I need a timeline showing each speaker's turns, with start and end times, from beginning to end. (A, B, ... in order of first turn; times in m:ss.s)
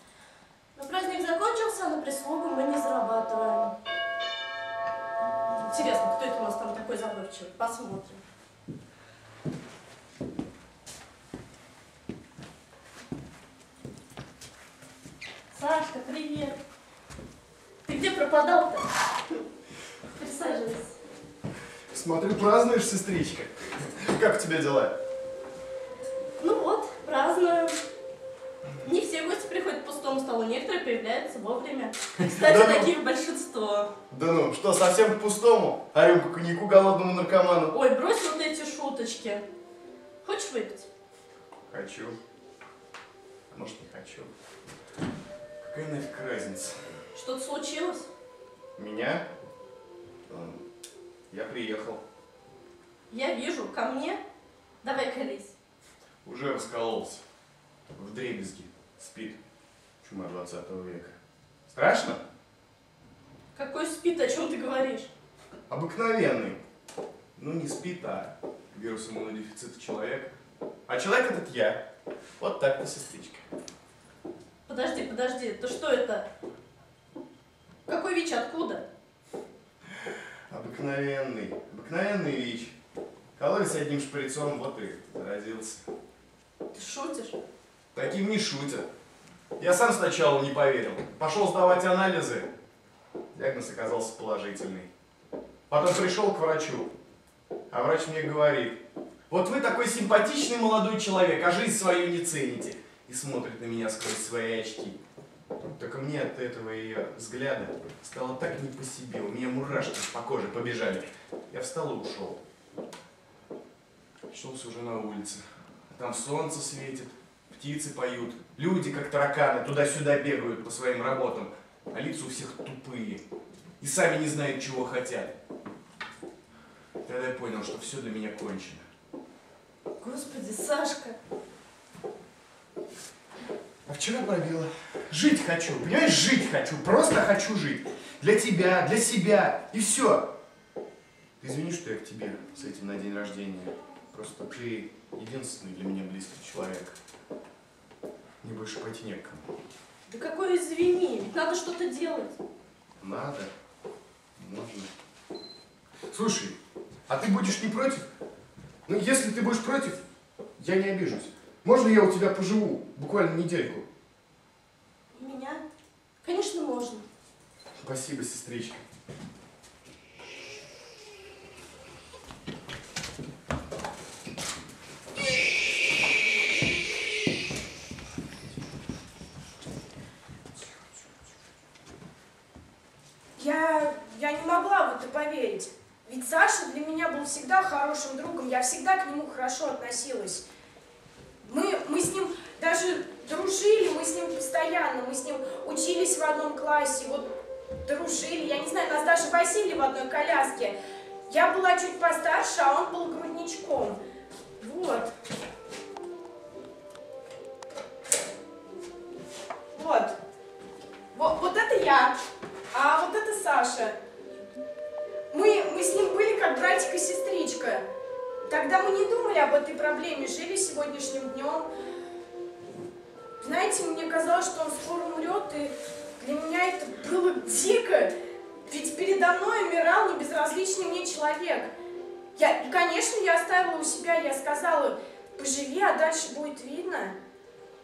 0:00.8-0:03.7 A
0:05.5-0:08.2 A
0:15.5-0:16.6 A
0:17.8-0:18.9 A
0:20.1-0:21.0 A
0:21.9-0:24.9 B
0:26.4-0:27.8 A
0:28.8-0:33.9 A
0:32.2-0:32.9 B
0:34.1-0:37.7 B
0:37.7-0:39.4 A
0:40.2-0:40.9 A
0:41.7-0:42.2 B
0:43.5-0:44.3 B
0:45.6-0:47.0 B
0:47.1-0:48.1 A
0:48.8-0:49.3 B
0:50.3-0:50.6 B
0:51.3-0:52.0 B
0:53.1-0:54.2 A
0:54.8-0:55.5 A
0:56.2-0:57.2 B
0:58.0-0:59.4 B
1:00.0-1:01.1 B
1:01.7-1:02.2 B
1:03.6-1:05.1 A
1:05.7-1:06.6 B
1:07.4-1:10.3 B
1:10.9-1:11.8 B
1:12.4-1:13.4 B
1:14.7-1:16.3 A
1:17.9-1:18.9 A
1:20.5-1:22.7 B
1:23.4-1:25.8 B
1:26.7-1:27.4 A
1:27.9-1:28.9 B
1:29.6-1:32.5 B
1:33.3-1:34.9 B
1:35.7-1:36.9 B
1:37.7-1:45.0 B
1:45.8-1:52.4 B
1:54.3-2:03.2 B
2:03.8-2:05.4 B
2:07.0-2:08.8 B
2:10.0-2:11.2 A
2:13.9-2:20.3 B
2:21.4-2:27.0 B
2:28.4-2:29.4 B
2:30.1-2:32.4 A
2:33.0-2:33.5 B
2:34.4-2:34.9 B
2:36.1-2:36.6 B
2:37.1-2:38.0 B
2:38.9-2:40.0 B
2:40.6-2:43.8 B
2:45.1-2:45.6 A
2:46.2-2:47.0 A
2:47.8-2:48.8 B
3:03.4-3:10.4 C
3:11.4-3:17.3 C
3:17.8-3:20.8 C
3:21.3-3:24.0 C
3:24.6-3:25.1 A
3:29.7-3:30.2 C
3:31.1-3:32.2 C
3:32.7-3:34.0 C
3:35.3-3:37.8 C
3:38.5-3:41.7 C
3:43.4-3:48.1 C
3:48.7-3:51.7 C
3:52.4-3:57.2 C